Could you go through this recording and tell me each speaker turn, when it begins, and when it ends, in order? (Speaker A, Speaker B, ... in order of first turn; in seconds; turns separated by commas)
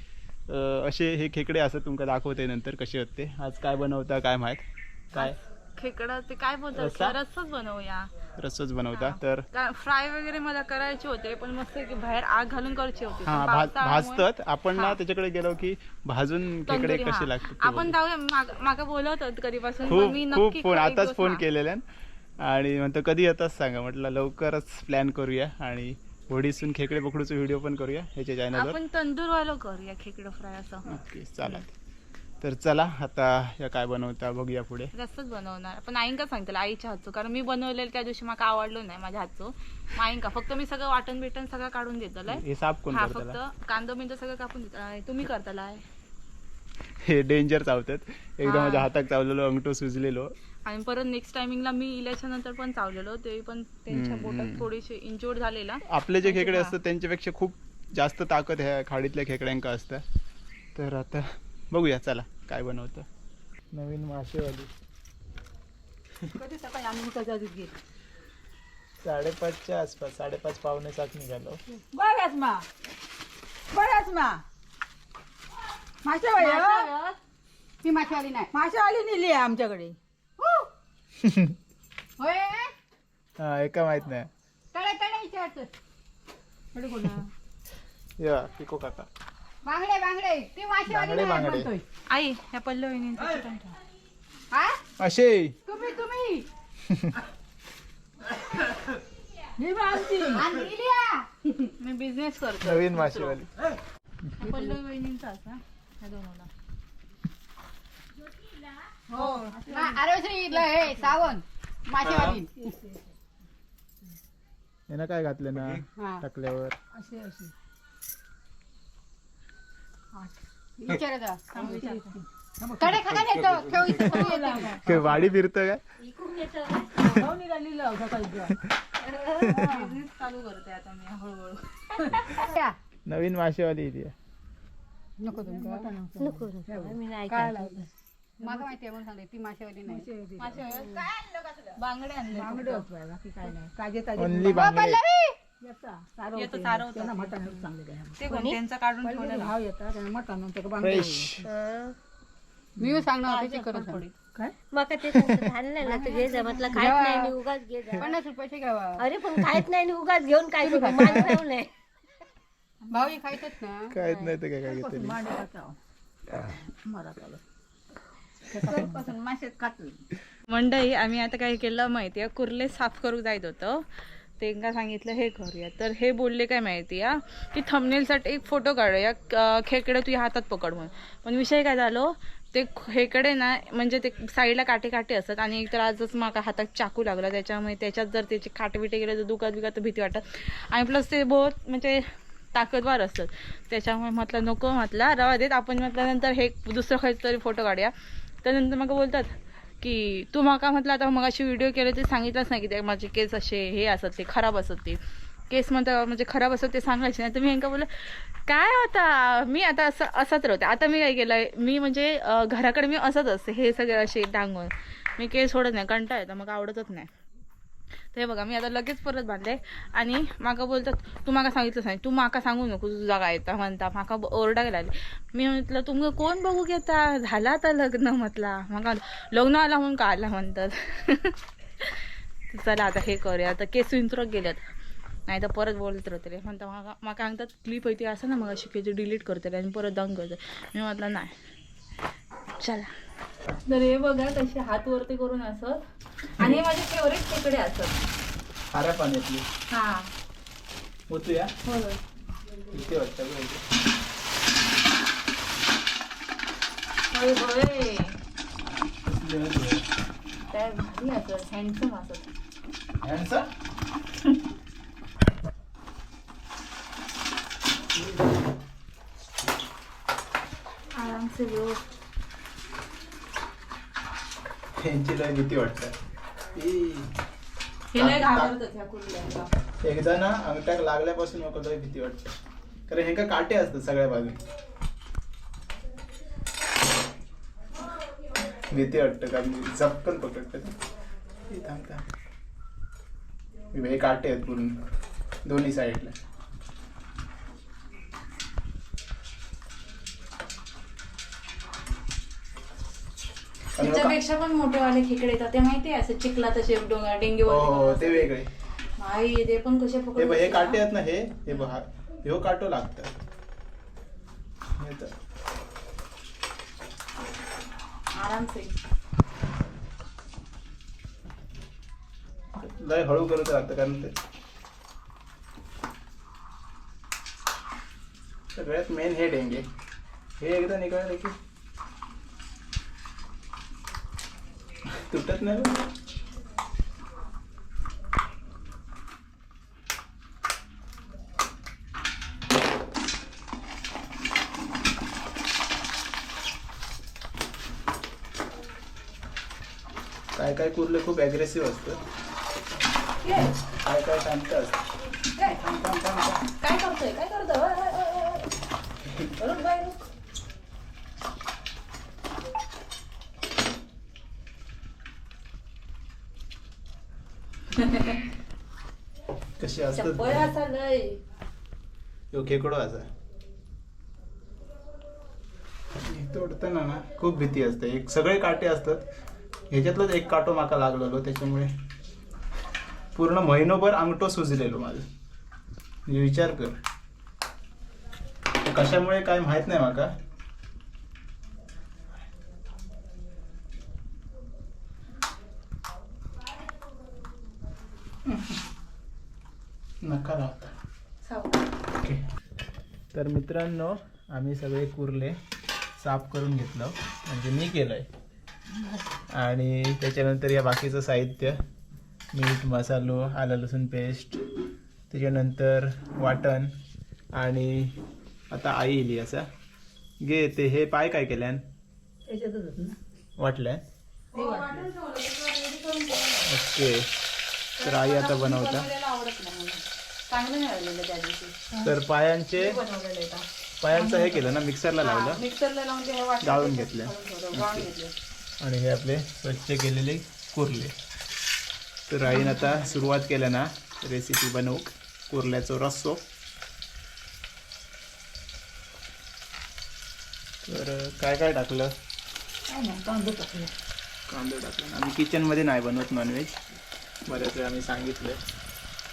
Speaker A: 0.5-5.3, Speaker B: 5.1-8.1, Speaker A: 6.7-7.2, Speaker A: 8.4-9.4, Speaker B: 8.9-15.0, Speaker A: 13.2-17.9, Speaker B: 16.7-21.4, Speaker A: 19.9-21.8, Speaker A: 22.4-28.8, Speaker B: 28.5-30.9, Speaker A: 30.9-31.7, Speaker A: 32.4-34.9, Speaker B: 34.9-45.8, Speaker A: 42.3-43.4, Speaker A: 47.0-50.3, Speaker B: 48.4-48.9, Speaker B: 50.6-56.8, Speaker A: 53.9-54.7, Speaker A: 55.9-60.0, Speaker A: 60.7-63.1, Speaker A: 63.7-64.7, Speaker C: 66.3-67.7, Speaker A: 69.0-71.6, Speaker C: 71.9-72.7, Speaker C: 73.7-74.4, Speaker C: 76.0-76.9, Speaker D: 77.8-78.5, Speaker C: 78.5-80.0, Speaker D: 80.4-80.7, Speaker A: 81.2-81.5, Speaker D: 82.2-82.7, Speaker A: 83.4-84.3, Speaker D: 84.7-85.7, Speaker C: 86.7-87.3, Speaker A: 88.2-89.1, Speaker D: 89.6-91.8, Speaker A: 90.8-91.7, Speaker B: 92.1-93.8, Speaker D: 94.5-94.8, Speaker A: 95.0-95.6, Speaker D: 95.7-96.4, Speaker A: 96.9-97.2, Speaker C: 99.6-100.5, Speaker D: 100.3-101.3, Speaker B: 101.8-103.4, Speaker A: 102.6-103.5, Speaker B: 104.4-106.5, Speaker C: 109.1-110.0, Speaker B: 109.1-109.5, Speaker D: 109.7-112.5, Speaker C: 112.6-113.0, Speaker A: 114.9-116.8, Speaker D: 116.0-116.2, Speaker C: 116.9-117.5, Speaker D: 120.8-121.8, Speaker B: 121.5-122.2, Speaker C: 121.6-125.3, Speaker D: 122.8-124.8, Speaker A: 124.8-125.8, Speaker E: 126.0-127.2, Speaker C: 127.0-128.6, Speaker B: 129.1-132.5, Speaker E: 129.1-129.6, Speaker C: 129.4-129.8, Speaker D: 132.3-132.8, Speaker A: 133.1-134.1, Speaker D: 135.2-135.9, Speaker C: 135.3-137.9, Speaker E: 136.2-137.8, Speaker D: 138.4-140.1, Speaker C: 138.4-138.7, Speaker C: 139.9-141.1, Speaker B: 140.4-141.0, Speaker B: 141.7-142.8, Speaker C: 142.3-144.7, Speaker A: 144.2-145.0, Speaker D: 144.5-145.4, Speaker C: 145.6-148.4, Speaker B: 146.3-149.5, Speaker E: 148.3-148.6, Speaker C: 149.0-151.4, Speaker A: 150.8-151.4, Speaker E: 151.4-151.9, Speaker D: 152.8-154.0, Speaker B: 153.2-154.2, Speaker E: 154.7-158.1, Speaker A: 155.1-155.5, Speaker C: 155.9-156.6, Speaker D: 156.6-157.3, Speaker D: 157.9-159.1, Speaker E: 159.0-161.7, Speaker D: 160.6-161.4, Speaker D: 162.9-163.9, Speaker A: 163.9-165.2, Speaker E: 164.0-164.3, Speaker C: 164.6-165.8, Speaker C: 166.3-167.4, Speaker C: 168.5-170.0, Speaker B: 170.5-173.9, Speaker B: 174.4-197.9, Speaker B: 198.4-217.1, Speaker B: 218.1-234.6, Speaker B: 235.3-241.4, Speaker B: 242.6-242.9, Speaker B: 243.6-248.0, Speaker A: 248.7-249.4, Speaker B: 249.7-250.1, Speaker A: 251.1-251.5, Speaker B: 251.6-252.0, Speaker A: 252.7-253.6, Speaker B: 257.1-258.2, Speaker A: 259.0-259.8, Speaker B: 260.5-262.3, Speaker A: 263.0-263.5, Speaker B: 270.9-271.8, Speaker A: 274.8-275.9, Speaker A: 276.5-277.1, Speaker B: 277.9-279.5, Speaker A: 277.9-278.5, Speaker A: 279.8-282.3, Speaker A: 282.9-284.4, Speaker A: 288.7-290.7, Speaker A: 291.5-292.0, Speaker A: 293.7-294.8, Speaker A: 295.4-296.1, Speaker B: 303.8-308.3, Speaker A: 303.8-304.1, Speaker A: 307.4-308.5, Speaker B: 309.0-310.8, Speaker A: 310.2-313.1, Speaker A: 314.8-315.1, Speaker B: 318.1-318.7, Speaker A: 322.5-324.1, Speaker A: 328.5-329.6, Speaker A: 330.4-331.3, Speaker A: 334.9-335.8, Speaker A: 350.3-352.0, Speaker B: 353.2-353.6, Speaker A: 353.8-354.8, Speaker B: 355.3-355.7, Speaker A: 355.6-356.4, Speaker B: 356.4-358.5, Speaker B: 359.2-360.0, Speaker B: 367.7-368.2, Speaker A: 369.6-370.5, Speaker B: 369.9-371.2, Speaker A: 372.3-373.1, Speaker A: 376.0-379.0, Speaker A: 379.7-381.7, Speaker A: 383.1-385.1, Speaker A: 386.1-386.8, Speaker A: 388.6-390.1, Speaker A: 400.0-400.7, Speaker B: 401.2-401.7, Speaker A: 403.1-405.4, Speaker A: 406.0-408.1, Speaker A: 409.3-411.6, Speaker A: 412.3-414.4, Speaker A: 415.1-416.7, Speaker A: 417.3-419.5, Speaker A: 420.2-421.6, Speaker C: 422.3-423.0, Speaker A: 423.4-423.8, Speaker B: 424.3-426.5, Speaker C: 424.3-424.8, Speaker A: 426.4-427.1, Speaker B: 427.8-431.6, Speaker A: 427.8-428.9, Speaker A: 431.8-432.8, Speaker B: 432.5-434.5, Speaker A: 433.8-435.4, Speaker B: 435.0-438.1, Speaker A: 436.4-437.9, Speaker A: 438.6-440.9, Speaker A: 442.1-446.2, Speaker B: 442.2-442.9, Speaker A: 450.6-451.9, Speaker C: 452.7-453.7, Speaker A: 454.3-456.6, Speaker A: 457.2-458.4